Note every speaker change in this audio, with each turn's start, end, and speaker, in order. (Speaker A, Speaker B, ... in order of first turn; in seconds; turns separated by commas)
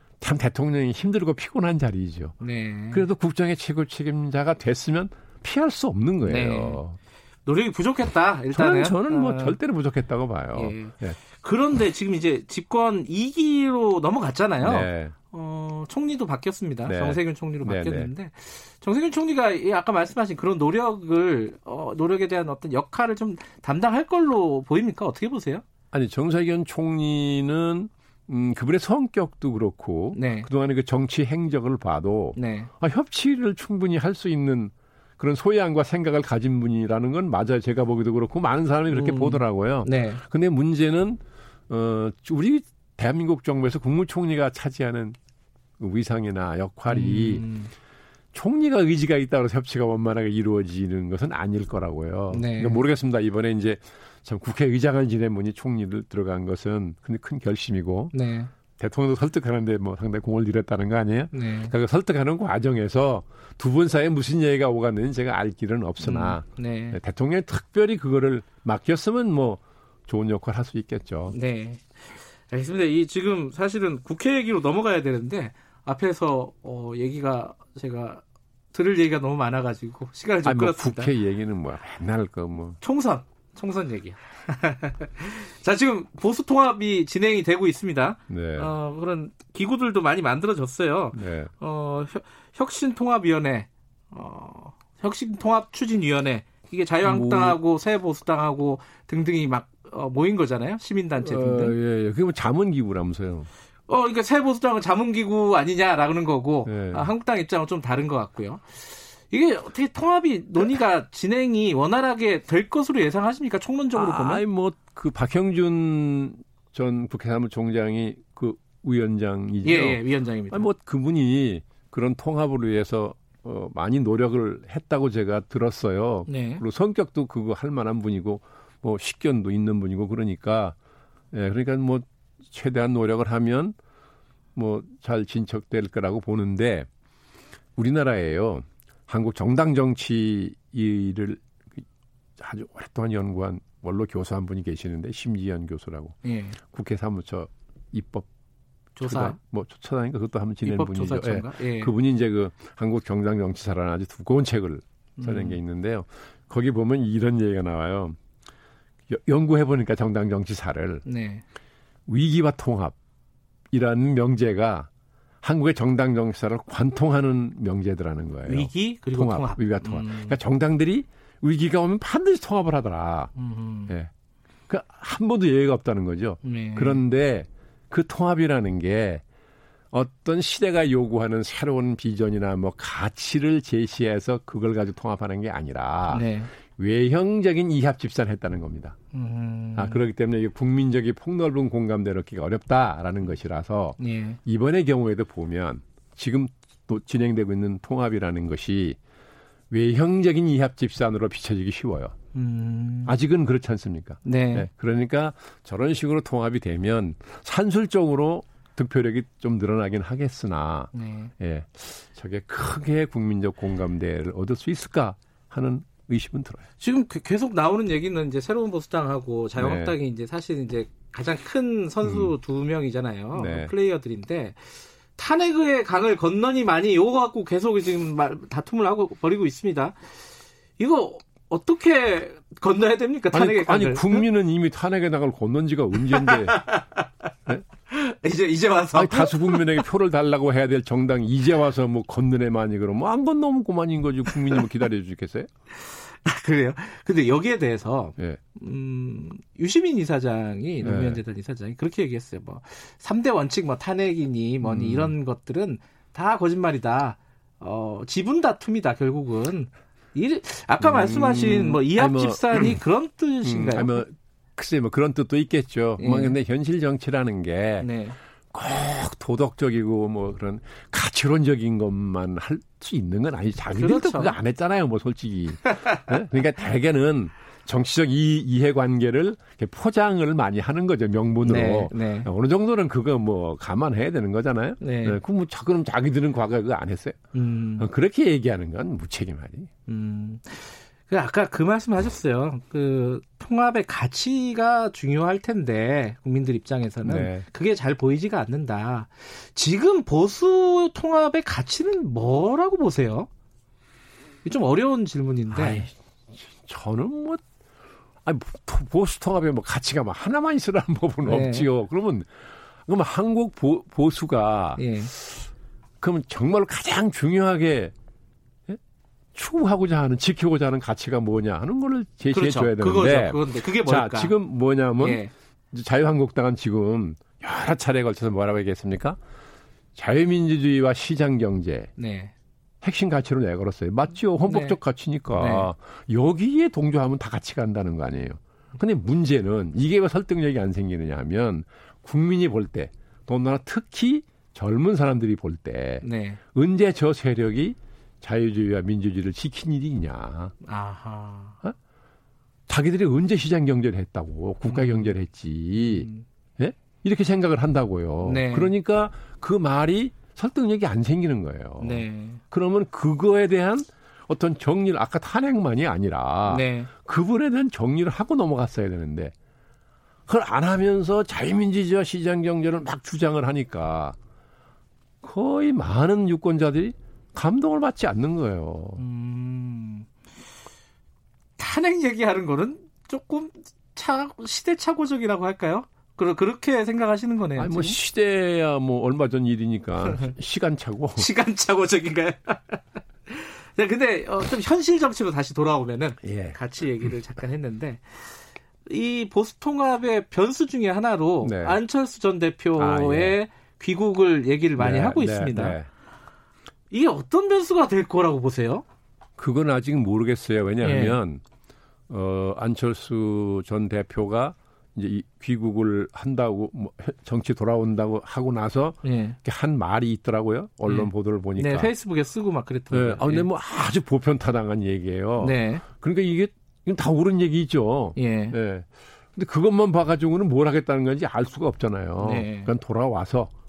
Speaker A: 0.2-2.3, Speaker B: 2.4-3.0, Speaker A: 2.9-7.0, Speaker B: 6.2-6.8, Speaker B: 7.5-9.6, Speaker A: 8.5-11.2, Speaker B: 10.5-25.6, Speaker A: 14.6-15.1, Speaker A: 16.9-18.1, Speaker A: 25.9-45.2, Speaker B: 30.1-30.5, Speaker B: 32.4-32.7, Speaker B: 38.9-40.2, Speaker A: 45.8-47.4, Speaker B: 46.9-47.7, Speaker A: 48.3-58.1, Speaker B: 52.3-52.8, Speaker B: 58.1-58.5, Speaker A: 58.8-71.3, Speaker B: 61.3-61.7, Speaker B: 66.0-67.0, Speaker B: 71.3-81.1, Speaker A: 80.4-82.8, Speaker B: 82.8-101.7, Speaker A: 88.3-88.7, Speaker A: 91.1-91.5, Speaker A: 97.0-97.6, Speaker A: 101.2-103.5, Speaker B: 103.9-114.4, Speaker A: 106.7-107.1, Speaker A: 113.9-130.8, Speaker B: 119.6-120.7, Speaker B: 126.3-126.6, Speaker A: 131.3-133.8, Speaker A: 134.5-136.9, Speaker A: 137.8-141.8, Speaker A: 142.4-148.3, Speaker B: 146.2-146.6, Speaker B: 149.0-149.3, Speaker A: 149.0-158.2, Speaker B: 150.6-151.9, Speaker B: 155.2-155.6, Speaker A: 159.1-161.0, Speaker B: 161.0-161.4, Speaker A: 162.1-162.9, Speaker A: 163.7-164.9, Speaker A: 165.4-173.3, Speaker B: 168.4-170.4, Speaker B: 173.3-173.9, Speaker A: 174.7-179.2, Speaker B: 176.4-177.0, Speaker A: 179.9-189.0, Speaker B: 186.1-186.5, Speaker B: 189.1-190.0, Speaker A: 189.8-199.0, Speaker B: 194.0-194.4, Speaker A: 199.7-202.1, Speaker B: 202.3-203.1, Speaker A: 203.1-216.6, Speaker B: 204.2-204.7, Speaker B: 210.9-211.3, Speaker B: 216.8-230.0, Speaker A: 219.6-219.9, Speaker A: 222.0-222.3, Speaker A: 223.3-223.7, Speaker B: 230.8-234.2, Speaker A: 233.3-236.6, Speaker B: 236.1-237.1, Speaker B: 237.9-239.8, Speaker A: 238.9-245.5, Speaker B: 245.8-264.0, Speaker A: 250.8-251.2, Speaker A: 254.6-255.1, Speaker A: 260.8-262.8, Speaker A: 263.4-267.9, Speaker B: 266.0-266.4, Speaker B: 267.8-268.2, Speaker A: 268.5-287.2, Speaker B: 273.7-274.4, Speaker B: 281.4-282.3, Speaker B: 284.8-285.2, Speaker B: 287.3-287.9, Speaker A: 287.8-289.7, Speaker B: 289.9-303.3, Speaker A: 297.0-297.4, Speaker B: 304.4-305.9, Speaker A: 305.5-307.4, Speaker A: 308.2-312.3, Speaker B: 311.2-311.7, Speaker A: 312.9-315.4, Speaker B: 314.8-315.1, Speaker A: 316.0-317.9, Speaker A: 319.3-329.2, Speaker B: 322.3-324.3, Speaker B: 325.0-325.3, Speaker A: 329.9-331.9, Speaker B: 332.0-332.3, Speaker A: 332.8-350.5, Speaker B: 334.5-334.8, Speaker B: 335.3-335.7, Speaker B: 346.0-346.4, Speaker B: 350.6-351.6, Speaker A: 352.7-356.1, Speaker B: 354.7-355.1, Speaker B: 355.8-356.2, Speaker A: 356.6-369.3, Speaker B: 358.2-358.7, Speaker B: 361.8-362.4, Speaker B: 366.4-366.9, Speaker A: 370.3-374.2, Speaker A: 375.2-379.0, Speaker B: 379.0-380.1, Speaker B: 381.6-388.0, Speaker A: 387.6-391.3, Speaker B: 391.2-405.8, Speaker A: 396.2-397.1, Speaker A: 401.4-401.8, Speaker A: 402.8-403.4, Speaker A: 404.8-405.9, Speaker B: 406.9-408.8, Speaker A: 409.4-411.4, Speaker B: 410.8-411.2, Speaker A: 412.1-421.9, Speaker B: 419.0-419.4, Speaker B: 420.9-423.5, Speaker A: 422.9-433.5, Speaker B: 425.4-425.8, Speaker B: 428.1-428.6, Speaker B: 432.2-432.7